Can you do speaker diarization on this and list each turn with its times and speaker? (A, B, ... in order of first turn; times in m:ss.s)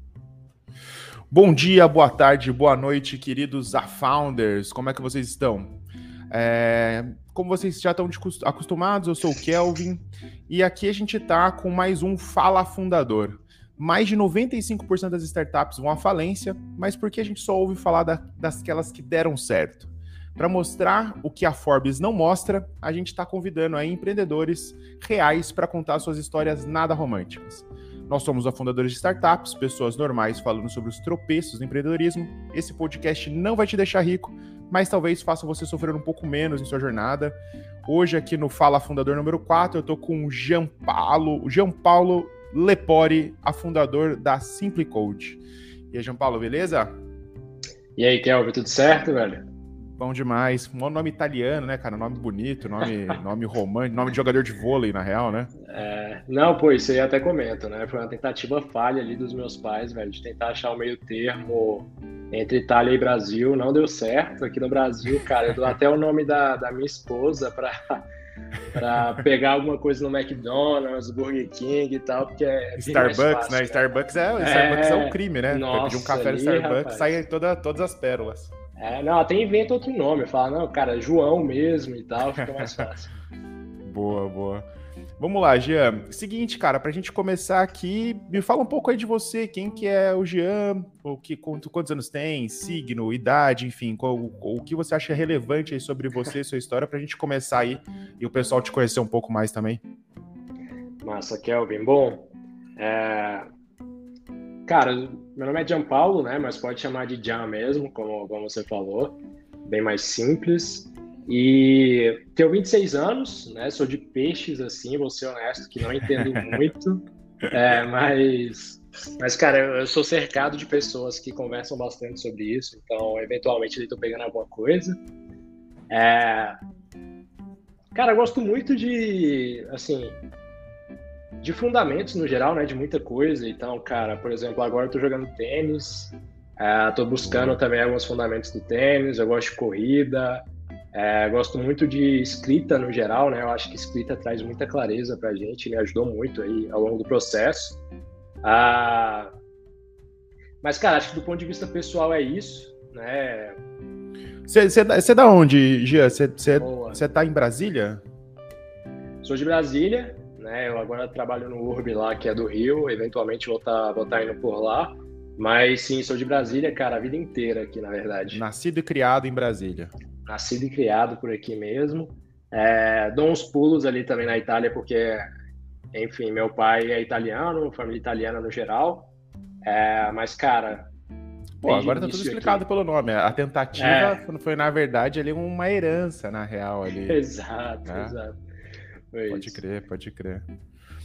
0:01.3-0:05.8 A
0:06.3-0:46.9 A
0:48.0-0:49.5 B
0:50.0-0:55.5 A
0:55.7-1:08.0 B
1:08.7-1:13.9 B
1:12.8-1:18.5 A
1:14.4-1:17.2 B
1:18.8-1:23.1 B
1:22.4-1:22.9 A
1:23.8-1:24.7 A
1:25.2-1:39.8 A
1:41.0-1:43.5 B
1:44.7-2:05.0 B
2:05.9-2:06.6 B
2:07.9-2:10.2 B
2:11.4-2:27.8 B
2:17.3-2:17.6 A
2:28.4-2:29.3 B
2:30.6-2:33.6 B
2:34.5-2:38.0 A
2:36.6-2:37.0 B
2:39.2-2:48.4 B
2:48.3-2:49.9 A
2:50.3-2:55.2 B
2:55.9-2:59.1 B
2:59.6-3:00.9 B
3:01.6-3:07.2 A
3:01.7-3:02.6 B
3:03.8-3:04.2 B
3:07.1-3:08.4 B
3:07.9-3:08.2 A
3:09.1-3:09.6 B
3:09.3-3:10.5 A